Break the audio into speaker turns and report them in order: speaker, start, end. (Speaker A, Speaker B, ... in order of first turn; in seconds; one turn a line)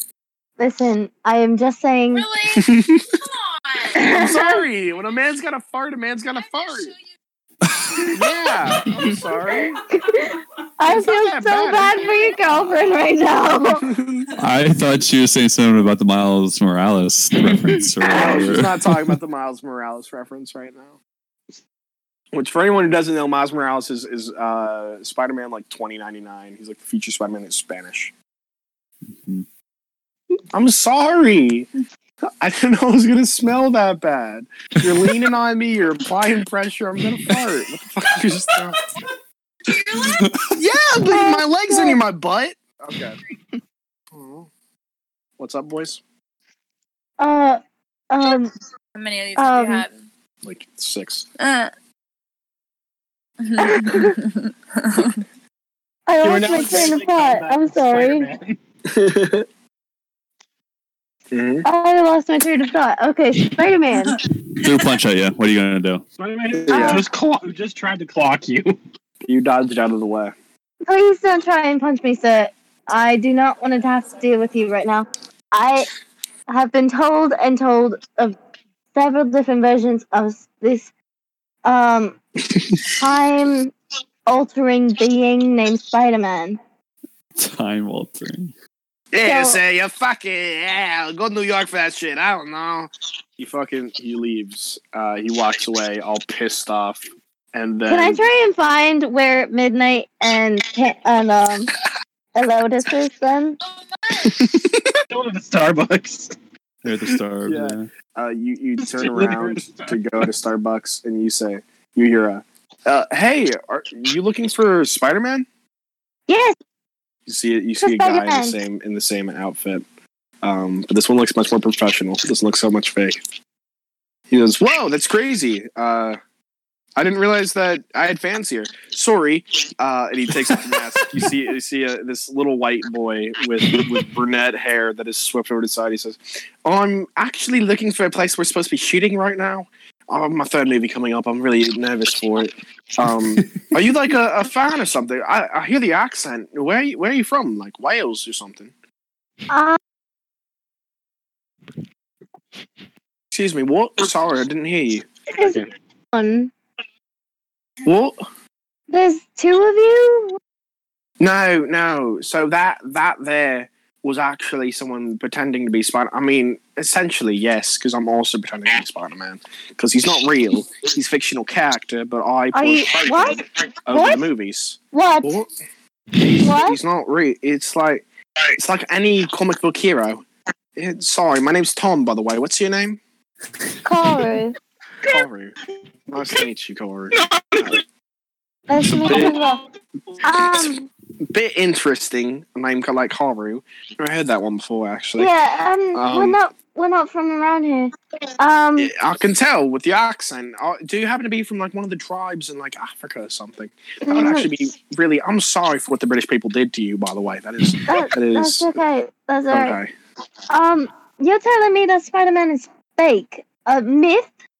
Speaker A: 0.6-2.3
Speaker B: 2.1-2.7
Speaker C: 2.6-3.0
Speaker B: 3.6-4.0
Speaker A: 3.9-4.6
Speaker C: 4.1-6.9
Speaker B: 6.7-7.0
Speaker D: 7.7-8.3
Speaker C: 8.1-9.8
Speaker A: 9.8-13.9
Speaker C: 10.9-12.1
Speaker B: 11.8-13.1
Speaker C: 13.8-14.3
Speaker D: 14.4-19.0
Speaker C: 18.0-21.0
Speaker C: 22.3-28.1
Speaker D: 29.1-29.5
Speaker C: 30.5-31.7
Speaker C: 32.4-38.8
Speaker B: 39.7-40.2
Speaker D: 40.0-40.5
Speaker C: 40.5-43.2
Speaker A: 41.0-42.0
Speaker C: 44.1-44.5
Speaker C: 45.4-46.0
Speaker A: 47.2-48.5
Speaker B: 49.0-50.0
Speaker A: 49.4-49.9
Speaker C: 50.4-51.3
Speaker B: 51.4-51.7
Speaker B: 53.4-55.2
Speaker A: 53.6-54.1
Speaker A: 56.1-58.3
Speaker E: 56.2-58.6
Speaker C: 58.9-59.5
Speaker C: 61.3-61.7
Speaker A: 61.6-64.2
Speaker D: 64.6-66.0
Speaker E: 66.2-68.8
Speaker C: 66.5-67.0
Speaker A: 66.7-67.0
Speaker C: 69.3-70.3
Speaker A: 70.8-75.9
Speaker A: 76.5-78.4
Speaker A: 79.0-80.9
Speaker A: 81.6-82.2
Speaker A: 83.0-83.7
Speaker A: 84.3-86.6
Speaker D: 87.3-88.5
Speaker C: 89.1-97.0
Speaker A: 89.2-89.6
Speaker C: 97.5-98.2
Speaker A: 97.9-101.7
Speaker A: 102.3-103.6
Speaker C: 104.2-105.0
Speaker E: 105.1-106.3
Speaker D: 106.8-107.9
Speaker C: 107.4-115.5
Speaker E: 108.8-110.2
Speaker A: 116.3-116.6
Speaker C: 117.3-119.8
Speaker A: 117.8-118.6
Speaker C: 120.4-123.2
Speaker C: 124.3-126.2
Speaker C: 127.0-148.7
Speaker D: 130.4-131.3
Speaker A: 149.5-149.8
Speaker C: 153.3-155.1
Speaker A: 155.3-155.6
Speaker E: 155.4-155.7
Speaker A: 156.1-156.5
Speaker C: 157.8-158.2
Speaker A: 158.9-160.4
Speaker C: 161.2-175.5
Speaker A: 172.5-174.3
Speaker A: 174.9-175.4
Speaker C: 176.2-180.2
Speaker A: 176.4-176.8
Speaker C: 180.8-183.0
Speaker A: 183.8-184.6
Speaker C: 185.0-185.6
Speaker C: 186.1-187.8
Speaker E: 187.2-187.8
Speaker A: 188.7-189.6
Speaker C: 188.8-189.4
Speaker E: 189.1-189.4
Speaker A: 190.2-190.9
Speaker C: 190.3-190.8
Speaker C: 191.3-195.3
Speaker A: 195.2-198.9
Speaker C: 195.9-196.4
Speaker C: 198.8-208.8
Speaker A: 204.1-204.5
Speaker A: 207.9-209.8
Speaker C: 209.5-209.9
Speaker A: 210.5-214.3